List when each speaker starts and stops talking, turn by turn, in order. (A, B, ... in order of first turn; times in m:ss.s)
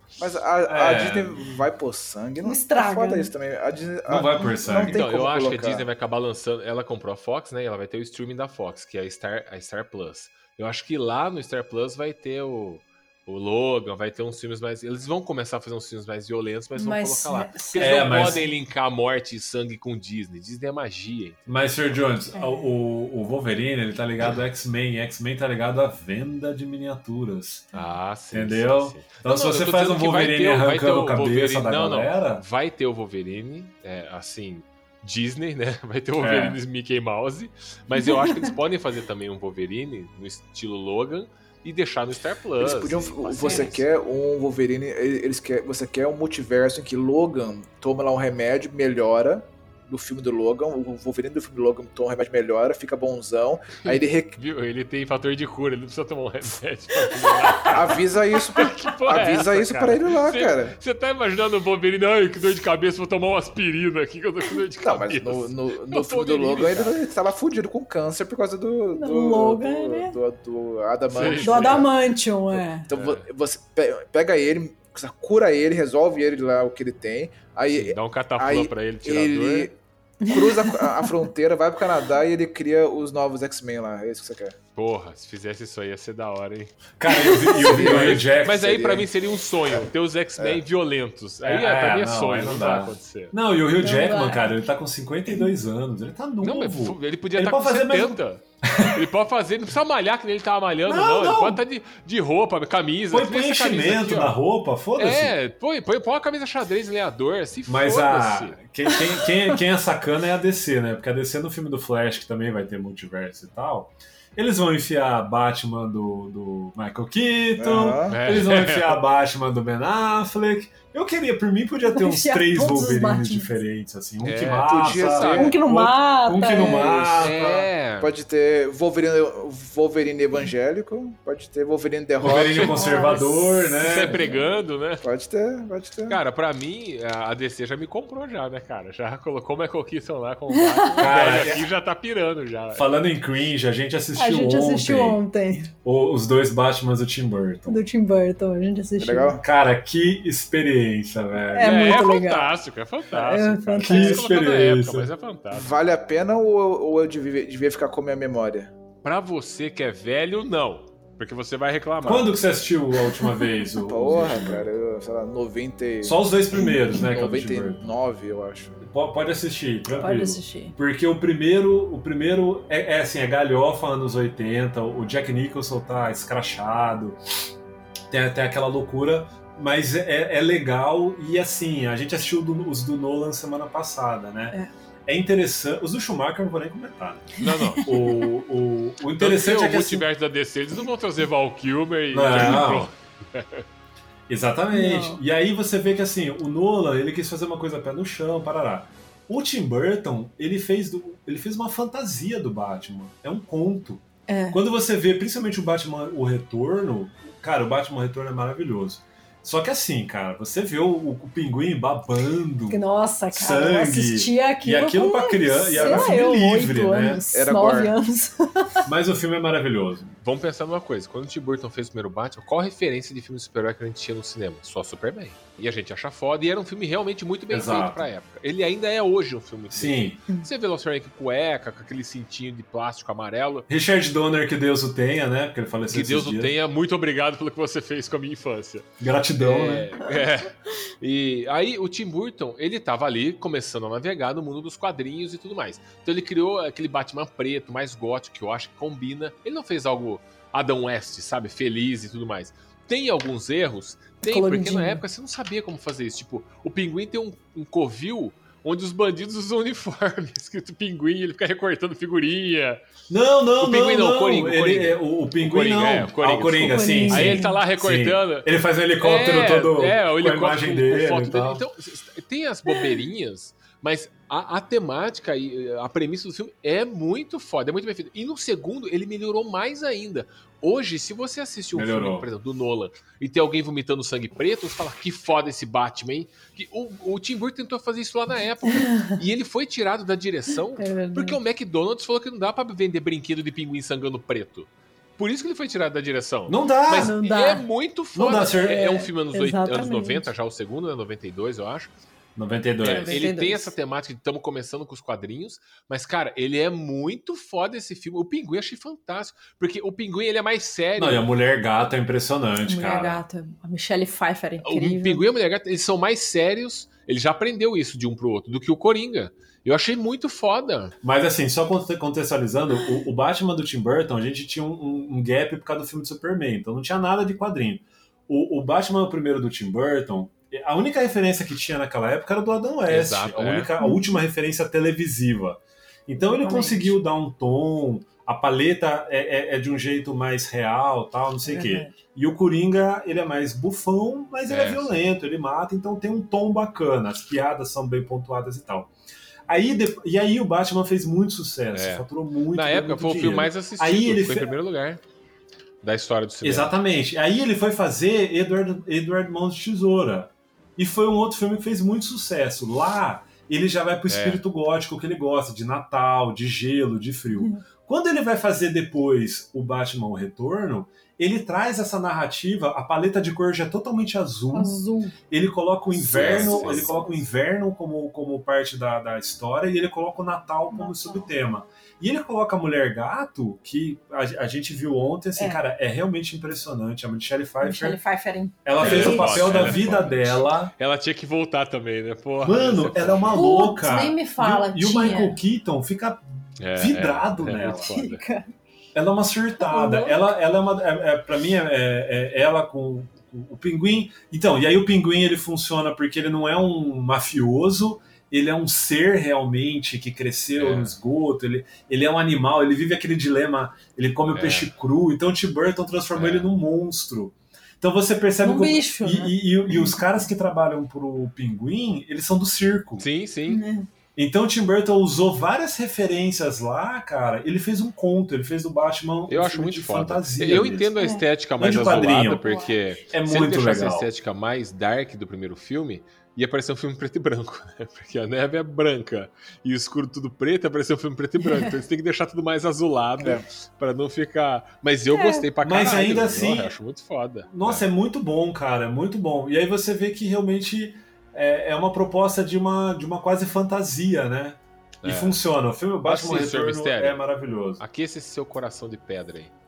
0:00.2-0:05.9 A
0:00.7-0:01.5 B
0:02.4-0:03.3 C
0:04.1-0:05.0 B
0:04.8-0:21.7 D
0:16.8-0:18.4 C
0:17.8-0:18.4 B
0:21.5-0:27.6 B
0:22.3-0:22.6 C
0:27.7-0:43.8 D
0:28.3-0:32.4 B
0:36.2-0:36.6 B
0:38.0-0:38.4 C
0:42.6-0:54.4 A
0:53.8-1:07.0 D
0:57.6-1:00.8 A
1:04.8-1:11.9 A
1:09.0-1:10.1 C
1:11.1-1:11.9 D
1:11.4-1:12.9 C
1:12.5-1:24.6 A
1:12.9-1:13.2 D
1:17.7-1:19.7 D
1:20.2-1:21.2 C
1:24.8-1:26.8 D
1:27.0-1:28.8 B
1:27.1-1:27.6 C
1:27.5-1:33.3 D
1:27.7-1:29.1 A
1:31.4-1:39.0 B
1:33.8-1:34.6 C
1:36.4-1:44.4 D
1:40.9-1:41.6 B
1:43.1-1:45.3 B
1:45.0-1:48.6 D
1:47.7-2:07.4 B
1:57.6-1:58.2 A
1:58.1-1:58.9 D
2:02.0-2:03.4 C
2:04.2-2:05.5 D
2:04.6-2:05.6 A
2:05.2-2:07.1 C
2:06.6-2:13.2 A
2:07.2-2:08.2 D
2:12.2-2:14.2 B
2:12.3-2:15.0 D
2:12.8-2:13.2 C
2:15.0-2:16.2 A
2:16.1-2:22.9 D
2:20.6-2:21.1 C
2:21.0-2:21.7 B
2:22.8-2:25.2 B
2:24.2-2:25.7 C
2:25.8-2:27.8 B
2:27.7-2:29.4 C
2:29.0-2:29.4 A
2:29.4-2:32.0 B
2:31.5-2:32.5 C
2:31.6-2:35.7 D
2:33.1-2:34.2 C
2:33.8-2:35.1 B
2:35.5-2:38.7 A
2:39.0-2:42.3 D
2:42.0-2:44.6 B
2:43.8-2:46.2 A
2:46.0-2:47.9 B
2:46.9-2:48.8 A
2:48.8-2:57.2 B
2:49.9-2:50.8 C
2:58.1-3:04.6 B
3:05.1-3:10.0 B
3:07.4-3:08.0 D
3:07.5-3:08.2 C
3:09.2-3:13.6 D
3:12.1-3:12.9 B
3:14.3-3:37.2 B
3:14.7-3:15.2 C
3:24.3-3:24.6 C
3:32.7-3:38.8 C
3:35.8-3:36.2 A
3:37.3-3:38.0 A
3:38.8-3:40.1 B
3:40.2-3:53.6 D
3:47.5-3:48.0 B
3:49.7-3:50.2 B
3:53.7-3:56.5 B
3:55.9-3:58.9 D
3:59.0-3:59.9 B
3:59.4-4:22.8 D
4:14.2-4:15.0 C
4:23.1-4:31.6 B
4:23.6-4:28.5 D
4:26.7-4:27.6 C
4:29.0-5:01.9 D
4:41.7-4:42.2 B
4:48.7-4:49.1 C
4:50.8-4:51.4 C
4:56.5-4:57.1 B
4:57.0-4:57.6 C
4:58.1-4:58.9 B
4:58.5-5:00.2 C
5:02.4-5:03.2 B
5:02.8-5:11.2 D
5:02.8-5:03.7 C
5:11.0-5:13.2 B
5:12.6-5:15.2 C
5:14.6-5:20.9 D
5:21.0-5:48.9 B
5:32.9-5:33.7 D
5:33.8-5:34.0 C
5:36.2-5:36.9 C
5:41.4-5:42.0 C
5:44.5-5:45.0 D
5:49.5-5:54.5 B
5:51.7-5:55.0 D
5:55.8-5:56.7 D
5:56.4-6:28.0 B
6:04.1-6:04.4 D
6:14.5-6:15.1 C
6:15.9-6:17.0 D
6:16.2-6:17.2 C
6:20.7-6:21.3 C
6:25.4-6:25.6 C
6:27.6-6:29.8 C
6:28.6-6:30.7 B
6:28.8-6:33.5 D
6:32.4-6:36.2 B
6:33.3-6:35.4 C
6:36.6-6:38.2 D
6:36.8-6:37.9 B
6:37.6-6:38.5 C
6:38.9-7:03.0 B
6:39.6-6:40.2 C
6:50.6-6:50.9 D
6:54.3-6:54.7 D
6:56.1-6:56.5 D
6:58.4-7:00.0 C
7:03.0-7:03.6 D
7:03.5-7:03.9 C
7:04.2-7:10.9 B
7:09.3-7:27.9 D
7:11.0-7:11.2 C
7:11.6-7:12.6 B
7:12.0-7:12.8 C
7:13.1-7:14.0 B
7:25.1-7:25.5 C
7:25.6-7:26.7 B
7:27.5-7:37.8 B
7:35.0-7:35.4 D
7:36.0-7:37.2 D
7:37.8-7:39.5 D